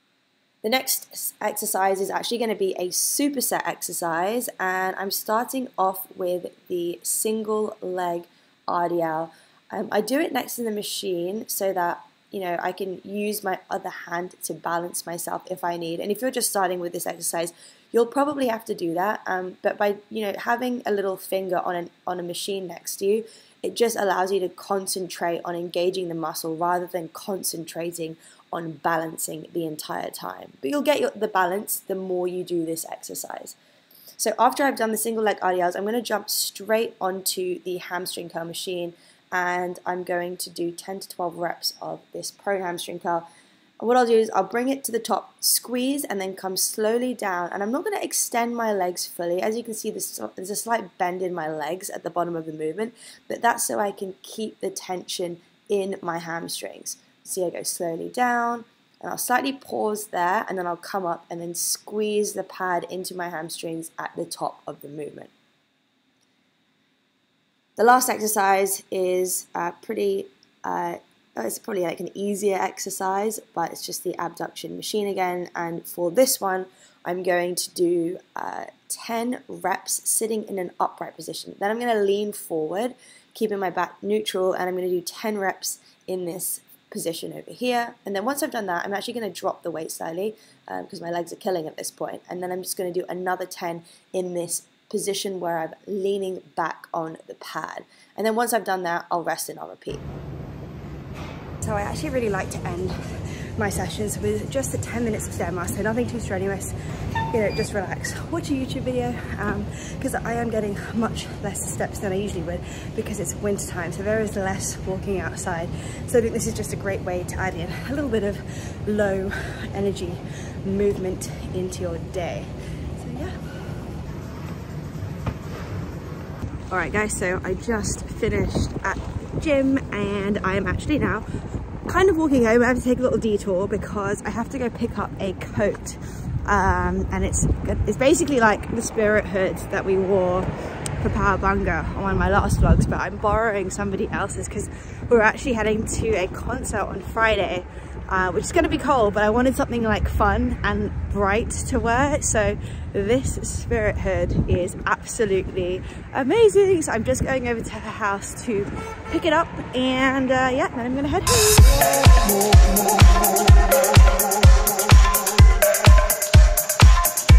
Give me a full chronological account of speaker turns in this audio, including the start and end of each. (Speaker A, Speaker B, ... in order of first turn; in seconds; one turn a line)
Speaker A: 0.6-33.5
Speaker A: 34.2-43.2
Speaker A: 43.8-65.3
Speaker A: 67.8-100.0
Speaker A: 101.6-103.0
Speaker A: 103.5-106.7
Speaker A: 107.3-123.3
Speaker A: 126.7-131.2
Speaker A: 131.9-161.8